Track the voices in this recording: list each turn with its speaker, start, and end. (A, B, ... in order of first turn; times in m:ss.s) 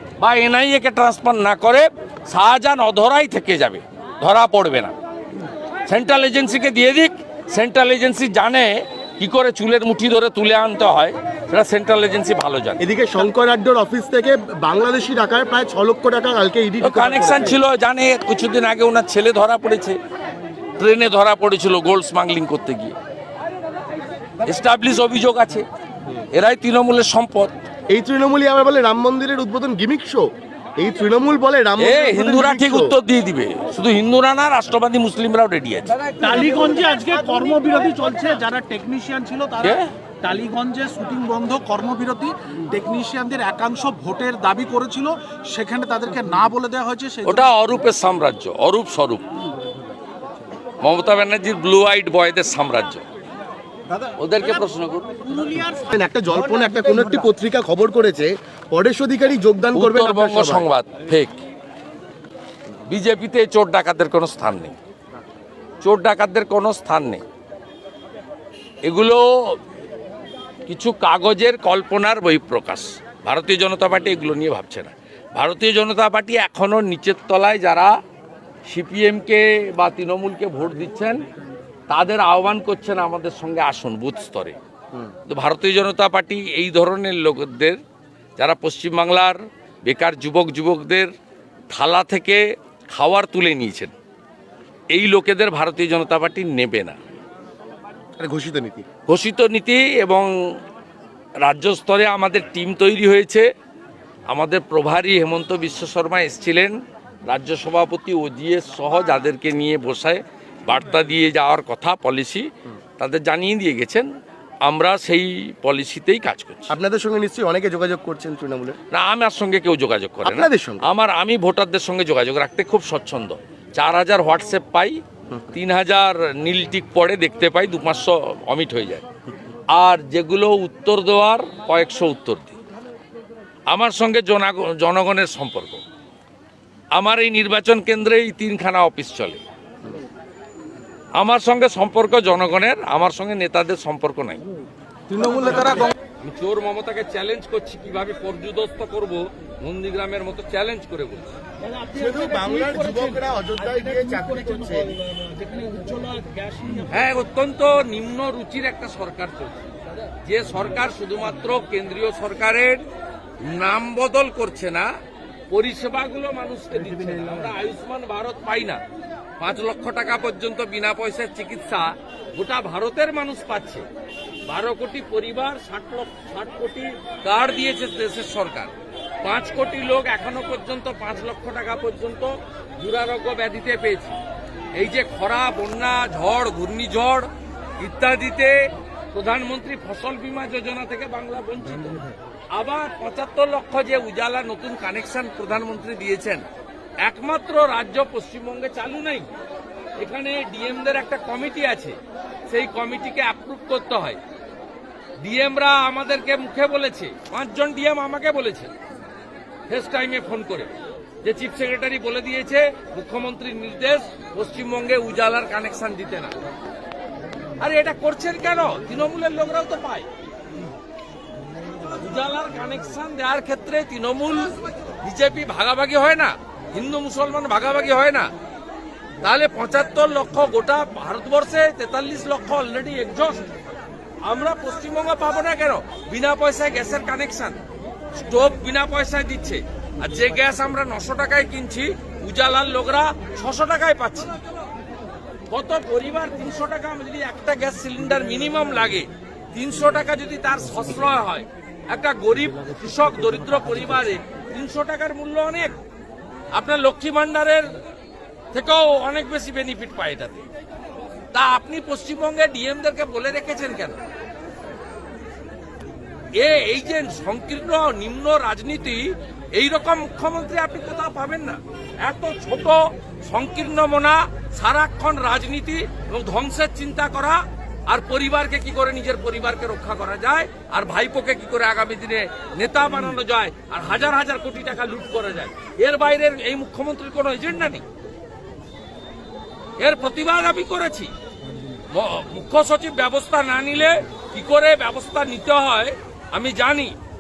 0:00.2-0:04.9 A
0:05.9-0:12.8 A
0:12.8-0:17.6 B
0:16.8-0:20.0 A
0:20.8-0:23.0 A
0:24.4-0:25.7 A
0:26.3-0:27.5 A
0:27.9-0:33.0 B
0:31.8-0:36.0 A
0:36.2-0:47.5 C
0:39.6-0:39.9 A
0:47.2-0:49.3 A
0:50.8-0:53.0 A
0:54.2-0:55.1 A
0:55.2-0:55.9 C
0:55.7-1:00.7 B
0:56.5-0:57.1 C
0:59.7-1:01.4 A
1:02.8-1:04.8 A
1:05.8-1:07.2 A
1:08.9-1:09.6 A
1:10.7-1:17.9 A
1:18.7-1:21.2 A
1:21.9-1:24.6 A
1:25.3-1:27.8 A
1:28.4-1:31.1 A
1:31.7-1:34.0 A
1:34.9-1:37.0 A
1:38.2-1:38.9 B
1:39.1-1:40.3 A
1:41.4-1:43.5 A
1:44.3-1:46.8 A
1:47.3-1:54.1 A
1:54.6-1:56.8 A
1:56.7-1:58.8 B
1:58.9-2:05.0 A
2:00.2-2:00.9 B
2:05.5-2:09.1 A
2:09.7-2:12.6 A
2:13.7-2:15.8 A
2:17.0-2:19.4 A
2:21.2-2:24.4 A
2:25.2-2:25.9 B
2:26.2-2:31.4 A
2:31.6-2:36.9 C
2:31.9-2:35.0 B
2:36.9-2:42.8 A
2:43.4-2:44.9 A
2:45.5-2:48.8 A
2:49.4-2:53.9 A
2:54.5-3:04.2 A
3:04.8-3:07.3 A
3:07.8-3:16.4 A
3:17.0-3:19.3 A
3:20.0-3:22.0 A
3:22.5-3:24.2 A
3:25.2-3:28.7 A
3:29.7-3:30.7 A
3:31.2-3:36.4 A
3:37.6-3:40.1 A
3:42.0-3:44.5 A
3:45.0-3:48.3 A
3:49.2-3:53.4 A
3:54.2-3:57.6 A
3:58.2-4:04.3 A
4:05.5-4:15.8 A
4:16.5-4:17.8 A
4:18.5-4:20.5 A
4:21.3-4:24.0 A
4:26.4-4:47.8 A
4:49.8-4:51.1 A
4:51.9-4:56.9 A